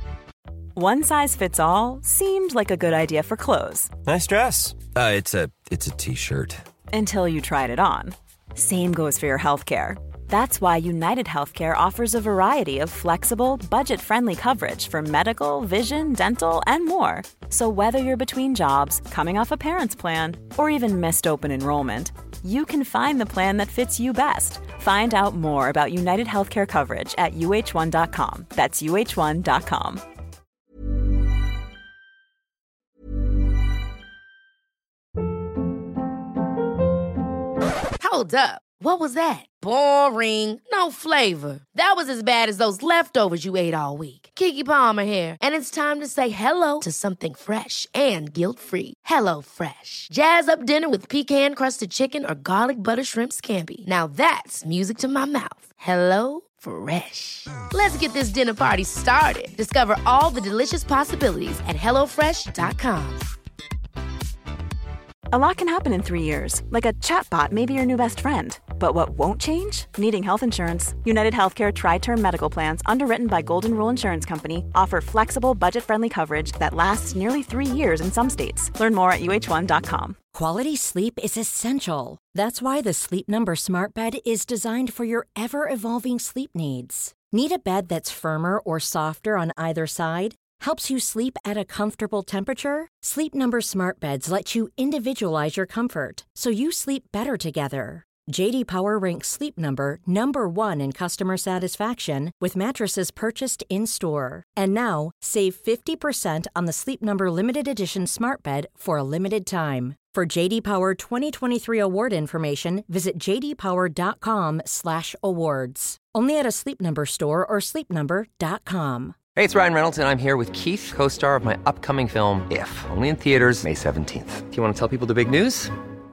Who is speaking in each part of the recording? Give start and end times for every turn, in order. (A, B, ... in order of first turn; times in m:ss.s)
0:00.8-0:03.9 A
0:04.1-0:06.6 B
0:06.9-0:30.0 A
0:38.0-1:03.2 C
1:05.3-1:20.2 A
1:20.3-1:59.2 D
1:59.3-2:05.7 E